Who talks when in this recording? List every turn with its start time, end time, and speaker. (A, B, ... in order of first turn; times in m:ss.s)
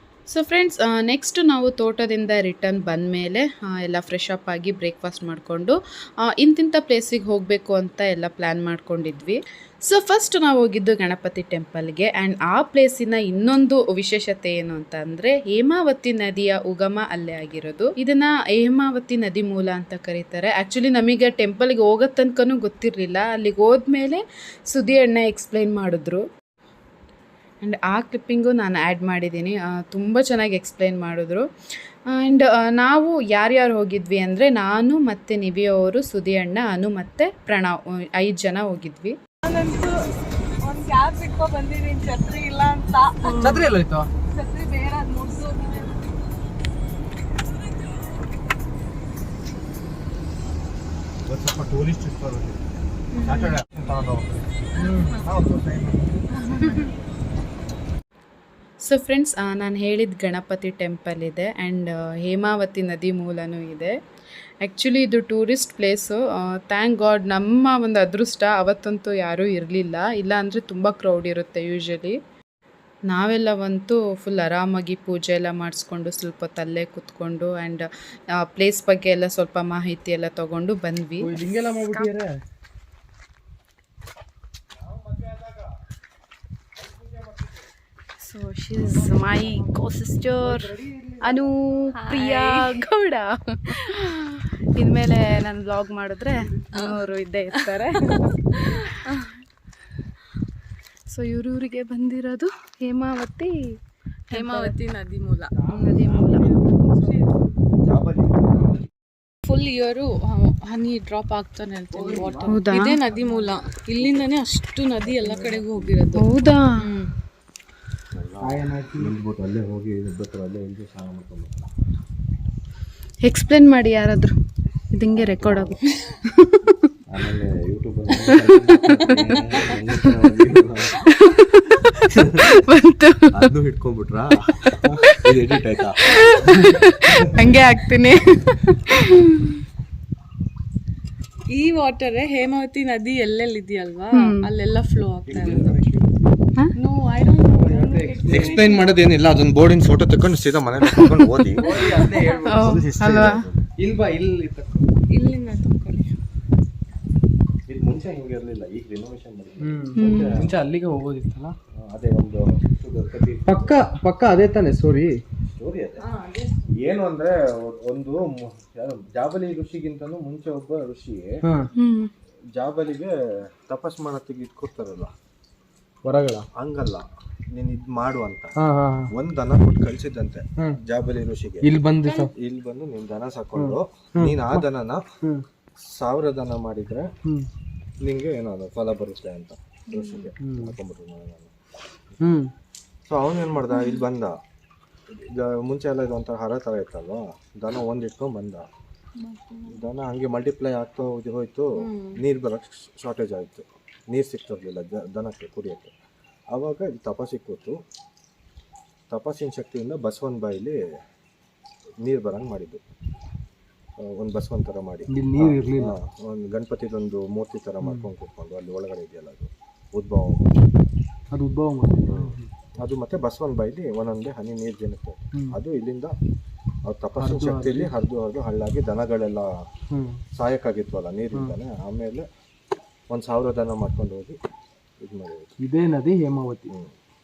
0:00.3-0:26.2 A
0:27.6-0:31.4 A
0:32.1-0:39.2 A
0:39.4-0:40.0 B
0:40.6-0:43.7 B
0:43.2-0:43.7 A
0:43.4-0:44.1 C
0:44.3-0:46.0 B
0:51.4-0:52.5 D
0:53.2-0:53.6 B
0:53.7-0:54.3 D
0:54.8-0:55.2 C
0:55.5-0:56.0 D
0:56.4-0:56.9 B
0:58.8-1:04.0 A
1:04.6-1:12.2 A
1:13.1-1:22.1 A
1:21.2-1:22.4 C
1:28.2-1:39.0 A
1:30.4-1:31.4 C
1:31.9-1:32.8 B
1:38.5-1:39.2 B
1:41.1-1:43.8 A
1:44.3-1:44.8 A
1:44.3-1:45.5 B
1:45.6-1:46.6 C
1:45.7-1:47.1 A
1:46.8-1:47.4 B
1:47.8-1:48.6 D
1:49.4-1:57.1 B
1:51.9-1:52.5 C
1:52.5-1:53.0 A
1:53.1-1:54.3 D
1:55.0-1:56.2 D
1:56.1-1:56.9 A
1:58.1-2:01.7 D
1:58.4-1:59.1 C
2:03.2-2:04.3 A
2:04.9-2:06.8 A
2:05.1-2:05.9 D
2:07.1-2:11.1 D
2:08.2-2:10.1 A
2:11.0-2:13.5 A
2:13.3-2:14.6 D
2:14.6-2:15.2 A
2:15.2-2:16.3 D
2:16.0-2:19.6 A
2:21.5-2:25.7 B
2:24.1-2:24.5 A
2:25.3-2:26.2 D
2:25.4-2:25.7 C
2:26.7-2:28.9 B
2:27.5-2:28.7 C
2:28.3-2:33.6 D
2:31.6-2:33.2 C
2:31.6-2:32.3 B
2:32.4-2:33.5 A
2:33.8-2:34.9 C
2:35.1-2:36.1 B
2:37.7-2:40.5 D
2:39.6-2:41.6 C
2:39.9-2:40.4 A
2:41.7-2:43.8 D
2:43.4-2:45.2 C
2:45.5-2:46.1 D
2:46.0-2:46.7 B
2:46.7-2:51.4 D
2:51.4-2:51.7 C
2:51.8-2:52.1 A
2:52.6-2:55.1 D
2:56.0-2:56.5 C
2:56.6-2:58.5 D
2:58.6-2:59.1 C
2:59.1-3:05.0 D
3:01.6-3:02.3 C
3:03.5-3:04.6 C
3:05.8-3:07.1 D
3:08.0-3:11.5 D
3:10.4-3:10.7 C
3:12.2-3:12.5 C
3:13.1-3:14.4 D
3:15.1-3:18.7 D
3:19.2-3:19.7 B
3:19.6-3:25.9 D
3:21.8-3:22.2 B
3:26.5-3:27.8 D
3:29.1-3:30.8 D
3:32.0-3:32.8 D
3:34.0-3:40.6 D
3:35.1-3:36.0 C
3:37.8-3:38.1 C
3:41.3-3:42.5 C
3:42.0-3:46.2 D
3:46.8-3:49.6 D
3:47.2-3:47.9 C
3:49.9-3:50.2 C
3:50.3-3:52.3 D
3:53.1-3:54.4 D
3:55.0-3:55.5 D
3:55.6-3:56.7 C
3:56.7-3:56.9 D